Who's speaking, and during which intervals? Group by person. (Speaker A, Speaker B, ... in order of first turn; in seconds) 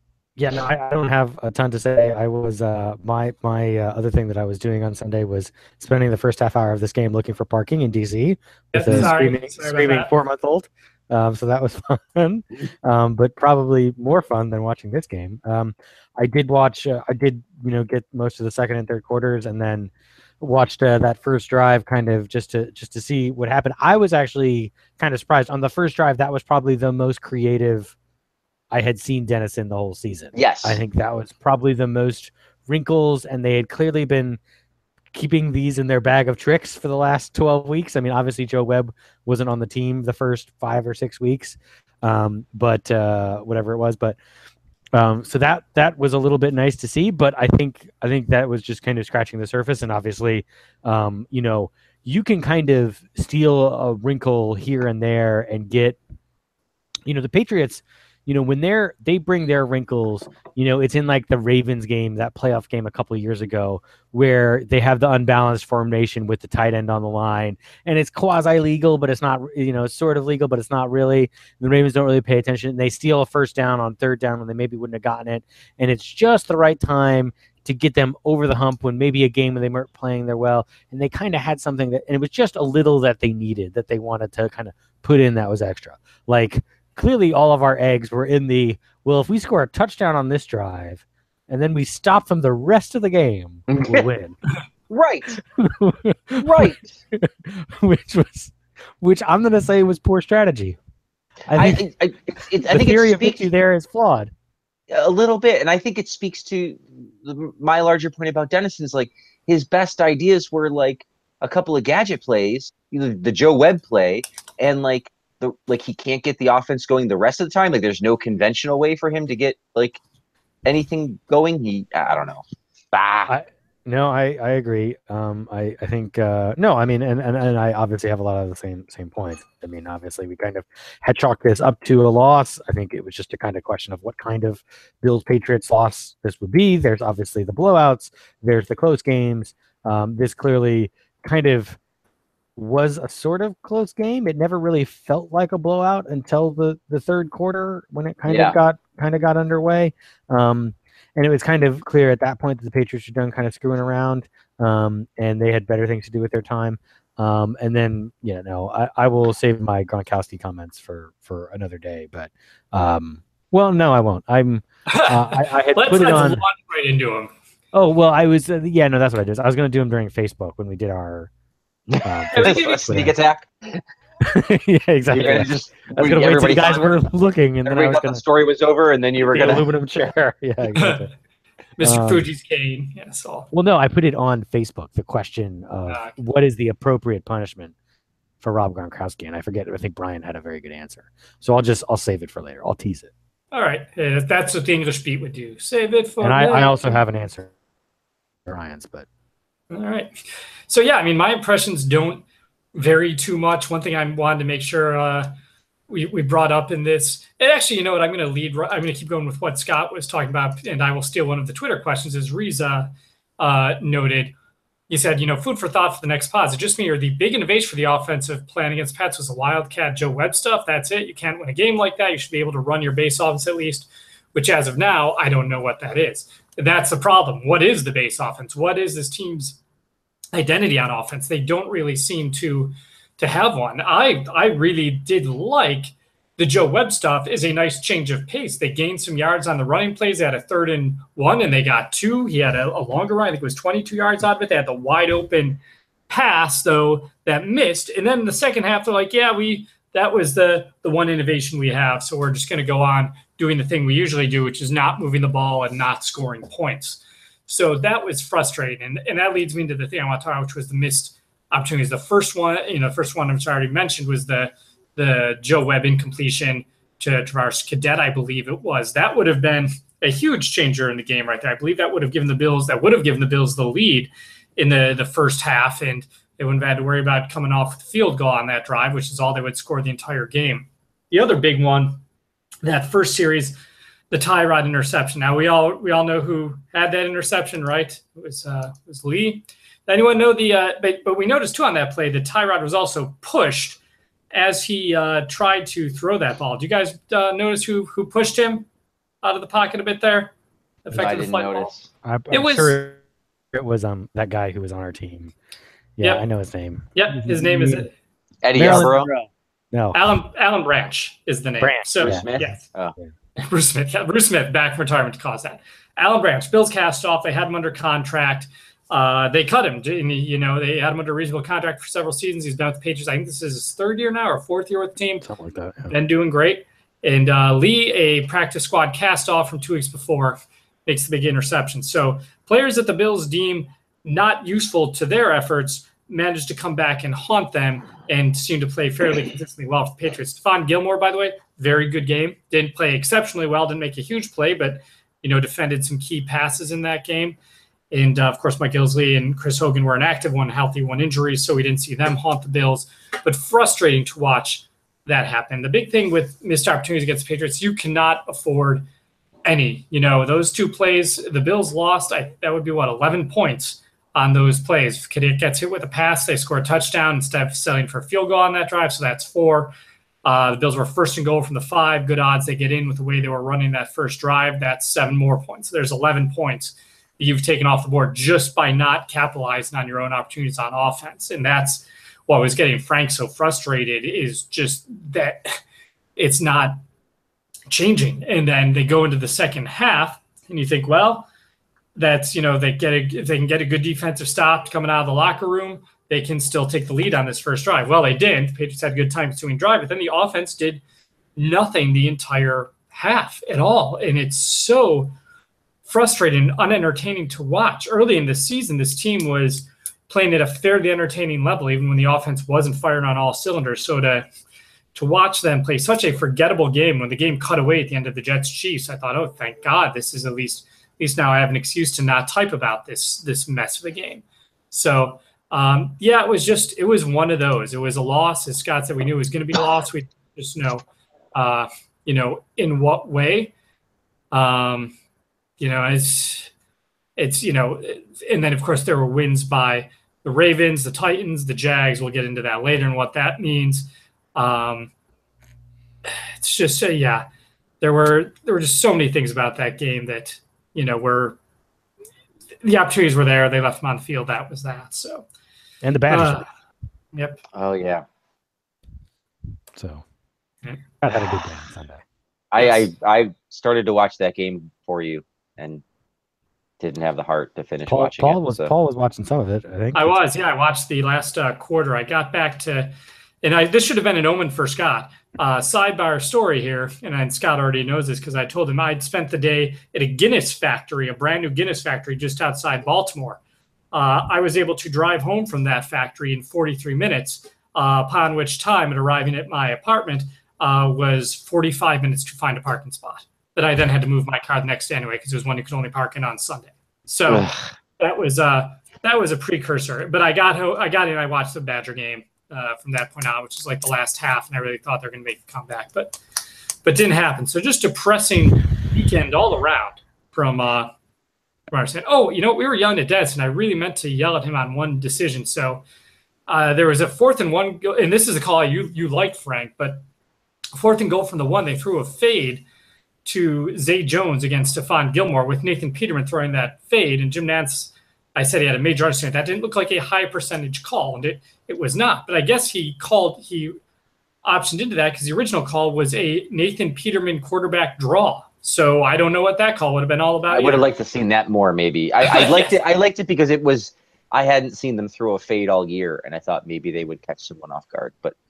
Speaker A: 0.4-27.9, 28.7-34.4, 35.1-44.2, 45.0-56.0, 57.1-94.4, 95.6-100.8, 101.5-101.9, 102.5-104.3, 123.3-141.8, 142.6-166.4, 167.7-171.3, 172.0-173.1, 174.2-178.2, 179.2-181.1, 181.8-182.2, 183.5-187.7, 188.4-193.1, 196.2-197.5, 198.5-199.1, 302.0-303.0, 303.5-305.3, 306.0-307.9, 308.6-310.0, 311.6-312.6, 325.2-325.9, 455.8-456.5, 459.7-460.0, 461.0-462.0, 467.9-470.2
Speaker B: 8.7-10.1, 164.9-167.3, 172.3-173.0, 176.6-176.9, 179.3-179.6, 180.8-181.1, 181.8-183.5, 185.9-186.1, 193.5-197.0, 199.7-200.1, 200.7-205.3, 205.9-214.3, 214.9-229.6, 230.3-282.0, 282.6-283.6, 284.1-293.8, 294.3-298.7, 299.2-300.3, 300.9-301.7, 302.3-302.8, 306.9-307.9, 309.9-312.6, 313.4-325.3, 325.9-347.4, 347.9-358.8, 359.5-369.7, 370.2-385.6, 386.2-386.8, 387.7-391.3, 391.9-400.8, 401.4-405.1, 405.9-414.3, 414.9-430.8, 431.4-433.5, 434.3-434.9, 435.6-436.5, 437.2-444.9, 446.1-447.2, 447.8-451.4, 452.6-455.3, 456.1-456.4, 457.1-457.4, 462.6-462.9, 469.9-483.4, 483.9-497.5, 498.0-506.2, 506.8-510.9, 511.7-515.8, 516.5-520.0, 520.8-522.6, 523.2-533.8, 534.5-540.9, 542.3-542.7
Speaker C: 30.4-30.8, 93.7-94.1, 94.9-95.4, 96.4-97.0, 101.5-103.5, 104.9-120.0, 120.7-123.3, 148.3-148.6, 172.0-173.8, 175.1-176.9, 177.7-179.7, 300.9-301.9, 308.4-309.1, 312.0-312.9, 457.5-458.0, 462.5-465.8, 466.8-468.7, 497.3-497.7, 540.5-548.4